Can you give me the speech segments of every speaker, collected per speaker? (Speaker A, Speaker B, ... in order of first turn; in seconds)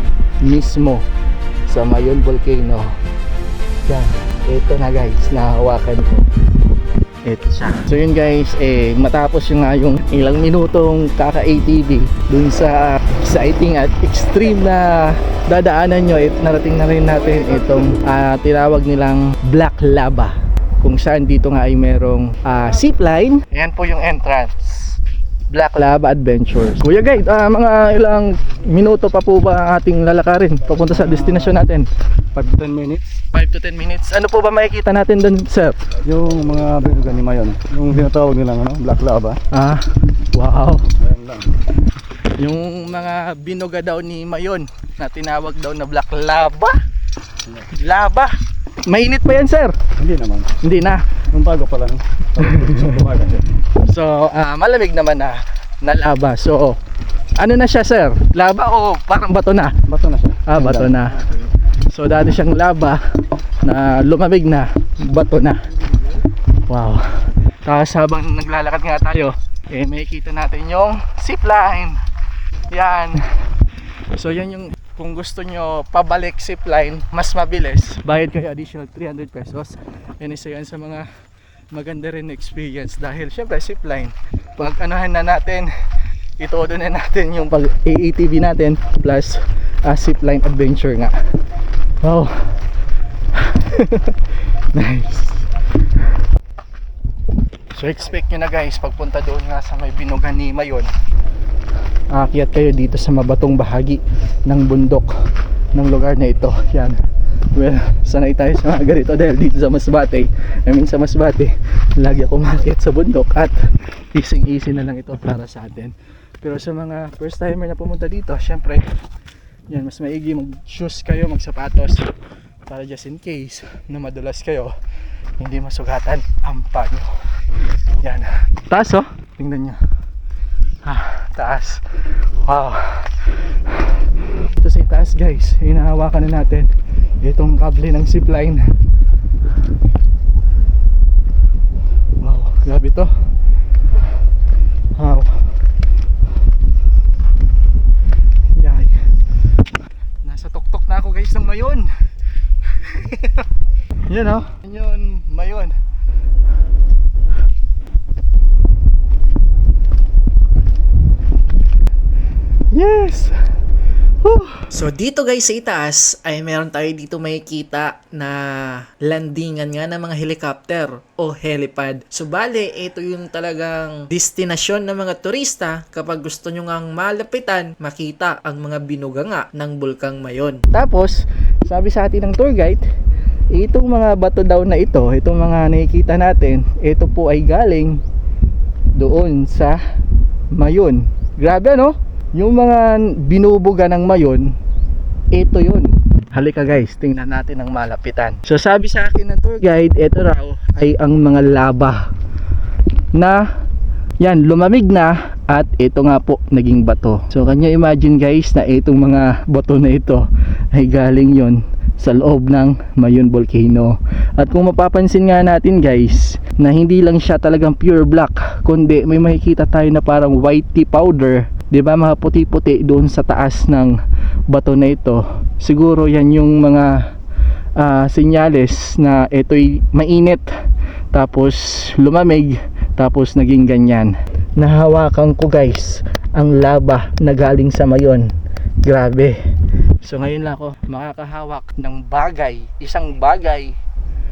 Speaker A: 0.4-1.0, 1.7-2.9, 3.9-6.2, 7.2-25.0, 25.5-31.9, 33.3-35.8, 39.5-40.9, 42.4-46.8, 47.7-49.8, 50.6-51.1, 53.6-56.8, 57.4-59.8, 60.4-61.3, 61.9-65.7, 66.7-72.0, 72.7-73.5, 74.1-81.1, 81.7-85.7, 86.4-91.2, 92.0-92.6, 93.3-95.4, 97.7-100.9, 102.1-105.1, 105.7-107.0, 107.5-118.9, 119.7-122.1, 122.7-124.7, 125.4-127.2, 128.0-129.8, 130.8-136.7, 137.2-138.7, 142.2-143.1, 145.0-145.5, 148.6-149.0, 150.2-151.9, 152.7-153.5, 154.1-155.7, 162.7-163.3, 164.2-164.7, 180.7-182.8, 183.5-188.0, 188.9-189.8, 190.5-194.6, 195.3-202.1, 203.1-203.4, 204.2-224.0, 224.5-227.0, 227.8-230.4, 231.1-238.3, 238.8-239.4, 240.0-243.8
Speaker B: 31.0-31.6, 32.3-33.0, 36.0-39.4, 41.0-41.5, 50.0-50.6, 51.3-53.5, 59.9-61.0
Speaker C: 164.7-180.6